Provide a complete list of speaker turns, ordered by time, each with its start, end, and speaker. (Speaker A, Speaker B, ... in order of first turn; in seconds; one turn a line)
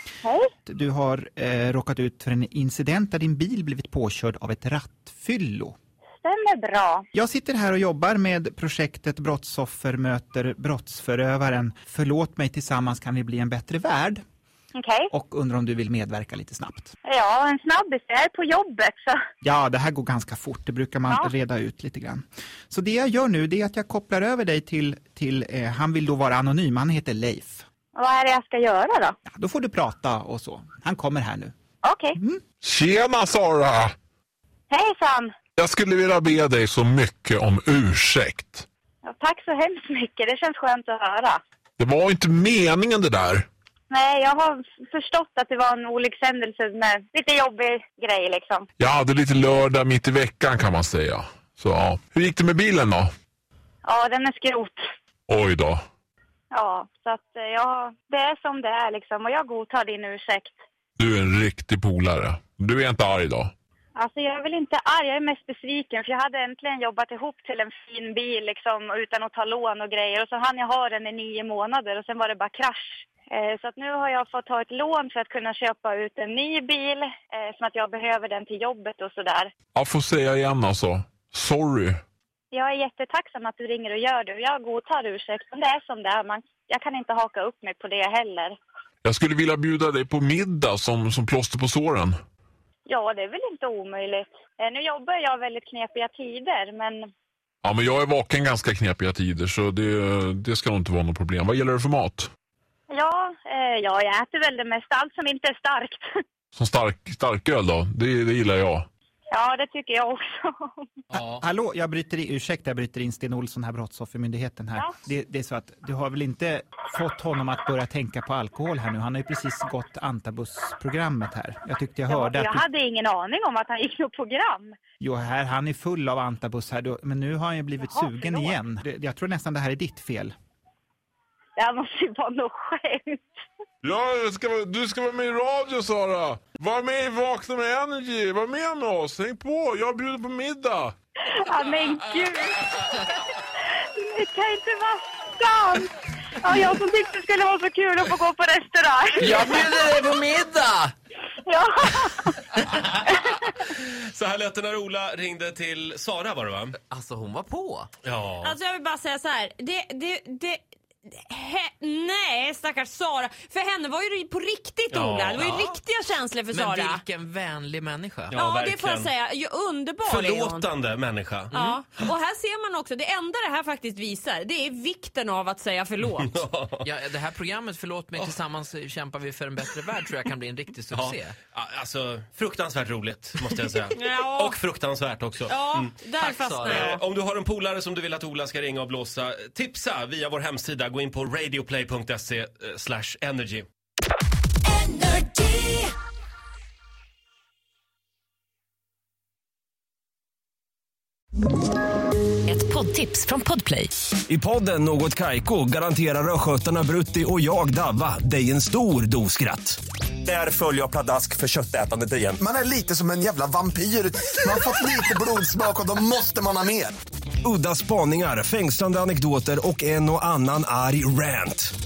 Speaker A: 0.2-0.5
Speaker B: 0.7-5.7
Speaker A: 6.2-7.0
Speaker B: 7.1-14.2
Speaker A: 14.7-15.1
Speaker B: 15.1-16.9
Speaker A: 17.1-19.2
Speaker B: 19.4-27.6
Speaker A: 27.9-29.1
Speaker B: 29.3-31.5
Speaker A: 31.8-32.2
Speaker C: 32.6-33.9
Speaker A: 34.7-35.3
Speaker C: 35.6-38.6
Speaker A: 39.0-41.4
Speaker C: 41.8-43.5
Speaker A: 43.9-48.7
Speaker C: 48.8-53.1
Speaker A: 53.9-54.8
Speaker C: 55.3-55.8
Speaker A: 56.5-60.5
Speaker C: 61.0-63.5
Speaker A: 64.0-79.5
Speaker C: 79.7-82.0
Speaker A: 82.5-88.5
Speaker C: 89.0-92.1
Speaker A: 92.9-97.1
Speaker C: 97.6-102.3
Speaker A: 102.9-106.0
Speaker C: 106.5-108.9
Speaker A: 109.3-110.9
Speaker B: 111.1-122.7
Speaker A: 122.1-124.7
Speaker B: 125.0-130.3
Speaker A: 127.8-128.6
Speaker A: 131.6-133.2
Speaker C: 133.8-140.9
Speaker A: 141.3-143.1
Speaker A: 143.6-149.7
Speaker D: 149.2-150.9
Speaker A: 151.4-152.5
Speaker E: 152.8-156.8
Speaker D: 156.9-157.9
Speaker E: 158.0-158.6
Speaker F: 158.4-167.0
Speaker E: 164.9-165.7
Speaker D: 165.4-165.8
Speaker D: 166.5-168.4
Speaker E: 168.3-169.1
Speaker F: 168.3-170.7
Speaker E: 170.0-172.0
Speaker F: 171.5-176.5
Speaker E: 176.0-176.8
Speaker D: 176.8-181.3
Speaker E: 180.9-193.7
Speaker F: 183.8-184.6
Speaker F: 185.5-187.0
Speaker D: 186.2-186.8
Speaker G: 194.8-195.7
Speaker G: 202.4-203.9
Speaker H: 204.1-212.3
Speaker I: 212.4-216.9
Speaker H: 217.4-221.7